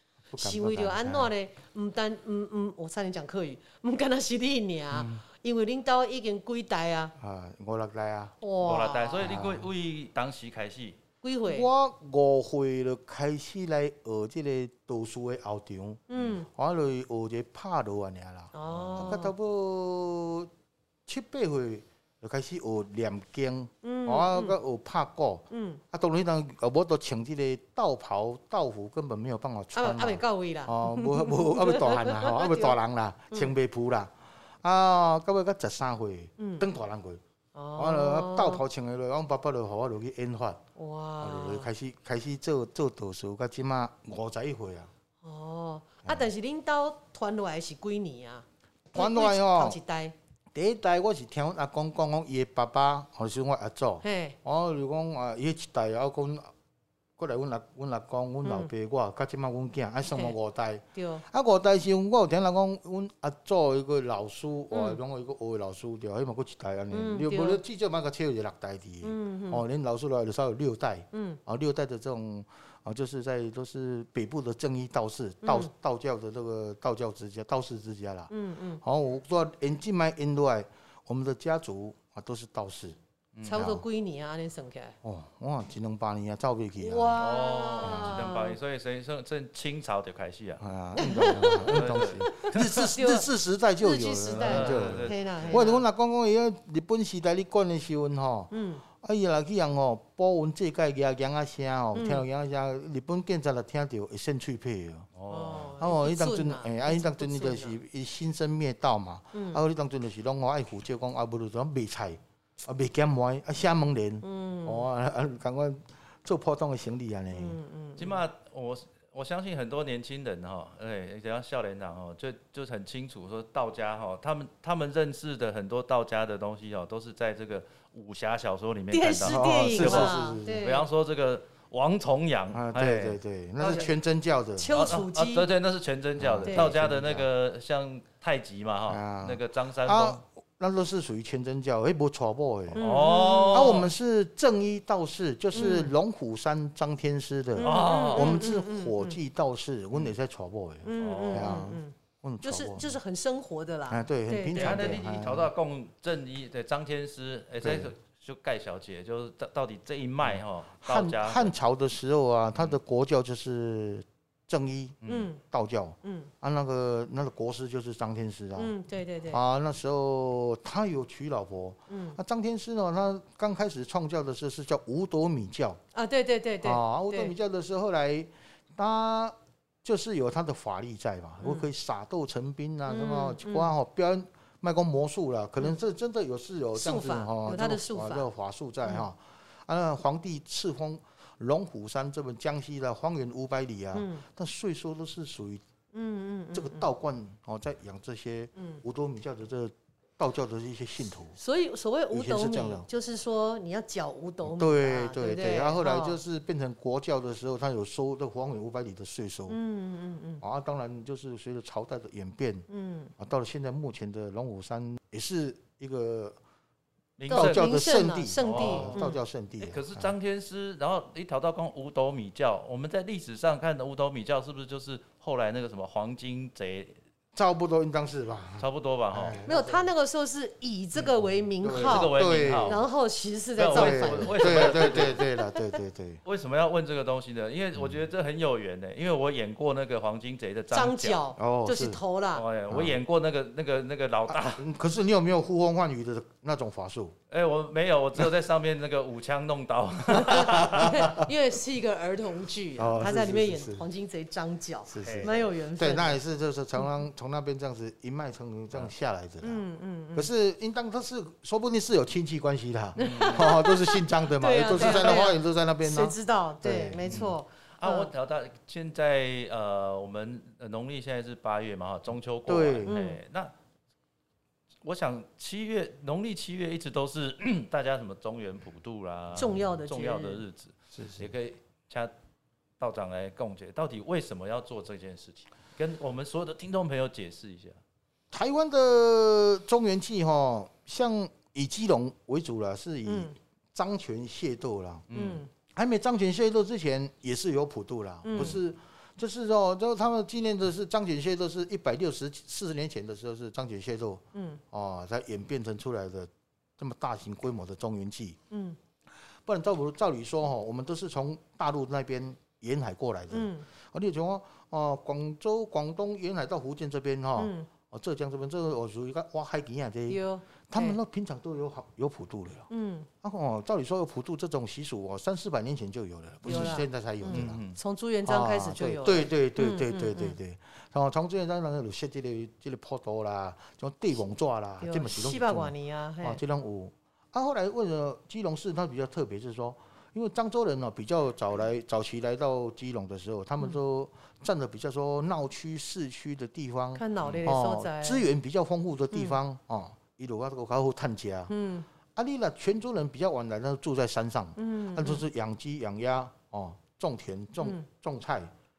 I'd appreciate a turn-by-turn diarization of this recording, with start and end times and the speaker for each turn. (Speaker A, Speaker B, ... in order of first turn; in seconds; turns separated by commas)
Speaker A: 0.3-1.3, Speaker B: 0.4-7.1, Speaker A: 4.9-5.2, Speaker A: 7.2-8.4, Speaker B: 8.4-9.5, Speaker C: 8.6-11.0, Speaker A: 9.2-9.7, Speaker B: 11.2-11.7, Speaker A: 11.5-20.5, Speaker B: 16.1-16.5, Speaker B: 18.5-19.3, Speaker C: 18.7-19.2, Speaker A: 21.1-37.2, Speaker B: 23.8-24.6, Speaker B: 25.5-25.8, Speaker B: 29.7-32.8, Speaker B: 36.4-36.7, Speaker B: 37.5-38.6, Speaker A: 37.8-40.6, Speaker B: 40.8-41.7, Speaker A: 41.2-44.9, Speaker B: 45.2-50.1, Speaker A: 48.9-49.8, Speaker A: 50.5-56.5, Speaker B: 54.0-54.4, Speaker A: 57.2-83.0, Speaker B: 58.4-58.7, Speaker B: 60.1-60.4, Speaker B: 61.0-61.2, Speaker B: 64.7-65.0, Speaker B: 66.9-67.6, Speaker B: 69.0-69.6, Speaker B: 71.1-71.4, Speaker B: 75.4-75.7, Speaker B: 78.3-78.8, Speaker C: 83.3-83.7, Speaker B: 83.4-85.0, Speaker A: 83.5-83.8, Speaker A: 85.0-87.2, Speaker B: 86.8-88.6, Speaker C: 87.2-92.9, Speaker A: 87.8-88.2, Speaker A: 90.6-105.1, Speaker B: 91.0-95.8, Speaker C: 94.3-95.7, Speaker B: 98.5-98.8, Speaker B: 102.0-102.2, Speaker C: 105.2-105.7, Speaker B: 105.3-107.8, Speaker A: 105.8-117.6, Speaker B: 109.3-109.6, Speaker B: 114.2-114.9, Speaker B: 117.3-118.2, Speaker C: 118.0-133.9, Speaker B: 128.9-130.9, Speaker A: 129.2-130.7, Speaker A: 132.5-134.8, Speaker B: 133.6-133.9, Speaker B: 134.6-135.5, Speaker C: 134.7-140.2, Speaker A: 136.2-137.3, Speaker B: 136.4-136.8, Speaker A: 138.9-142.8, Speaker C: 142.8-143.9, Speaker B: 142.8-143.8, Speaker A: 143.5-152.9, Speaker B: 145.6-145.9, Speaker B: 147.6-149.2, Speaker C: 147.6-148.4, Speaker B: 150.8-155.0, Speaker C: 151.0-151.7, Speaker A: 153.9-155.5, Speaker C: 154.6-161.5, Speaker A: 157.6-157.9, Speaker A: 160.3-168.7, Speaker C: 165.0-165.3, Speaker B: 165.1-165.4, Speaker B: 166.0-166.3, Speaker B: 168.6-169.4, Speaker A: 169.3-175.8, Speaker B: 171.9-172.2, Speaker B: 175.9-177.3, Speaker A: 176.6-195.6, Speaker B: 182.9-183.7, Speaker B: 186.8-188.3, Speaker B: 193.9-194.2, Speaker B: 195.9-196.9, Speaker A: 196.5-201.4, Speaker B: 198.6-198.8, Speaker B: 201.3-206.2, Speaker A: 202.1-202.9, Speaker A: 204.4-209.6, Speaker B: 209.5-210.4, Speaker A: 210.4-216.4, Speaker B: 212.7-213.1, Speaker C: 217.2-217.7, Speaker B: 217.3-219.2, Speaker A: 217.3-220.1, Speaker C: 218.4-226.9, Speaker A: 227.3-229.8, Speaker C: 228.6-229.4, Speaker B: 229.4-235.5, Speaker A: 231.6-232.8, Speaker C: 231.7-232.8, Speaker C: 233.6-235.2, Speaker A: 233.7-236.2, Speaker C: 236.2-241.2, Speaker B: 240.7-242.4, Speaker A: 241.4-242.0, Speaker C: 242.3-244.7, Speaker A: 242.7-243.0, Speaker A: 244.3-247.1, Speaker C: 247.3-251.1, Speaker B: 250.1-256.2, Speaker A: 250.1-251.3, Speaker A: 252.8-253.8, Speaker A: 254.9-259.6, Speaker C: 255.0-255.3, Speaker B: 259.4-260.3, Speaker A: 260.1-267.3, Speaker B: 263.0-268.1, Speaker C: 263.0-263.6, Speaker C: 264.8-265.2, Speaker C: 267.1-273.5, Speaker A: 272.5-272.9, Speaker B: 272.9-273.2, Speaker C: 274.8-282.1, Speaker B: 279.4-280.4, Speaker A: 280.9-281.3, Speaker C: 282.8-287.8, Speaker A: 288.3-295.1, Speaker B: 293.1-293.3, Speaker C: 295.1-295.4, Speaker B: 295.1-295.5, Speaker A: 295.7-308.4, Speaker B: 298.2-298.6, Speaker B: 304.3-304.6, Speaker B: 308.5-308.8, Speaker A: 309.4-322.7, Speaker B: 313.3-313.6, Speaker B: 317.4-317.7, Speaker B: 320.1-321.0, Speaker B: 322.7-323.1, Speaker A: 323.2-327.6, Speaker B: 326.4-330.4, Speaker C: 327.3-327.8, Speaker A: 328.2-351.5, Speaker B: 334.8-336.4, Speaker B: 346.9-348.2, Speaker B: 349.1-349.4, Speaker B: 351.5-351.9, Speaker A: 352.1-358.5, Speaker B: 354.6-355.2, Speaker B: 357.6-357.9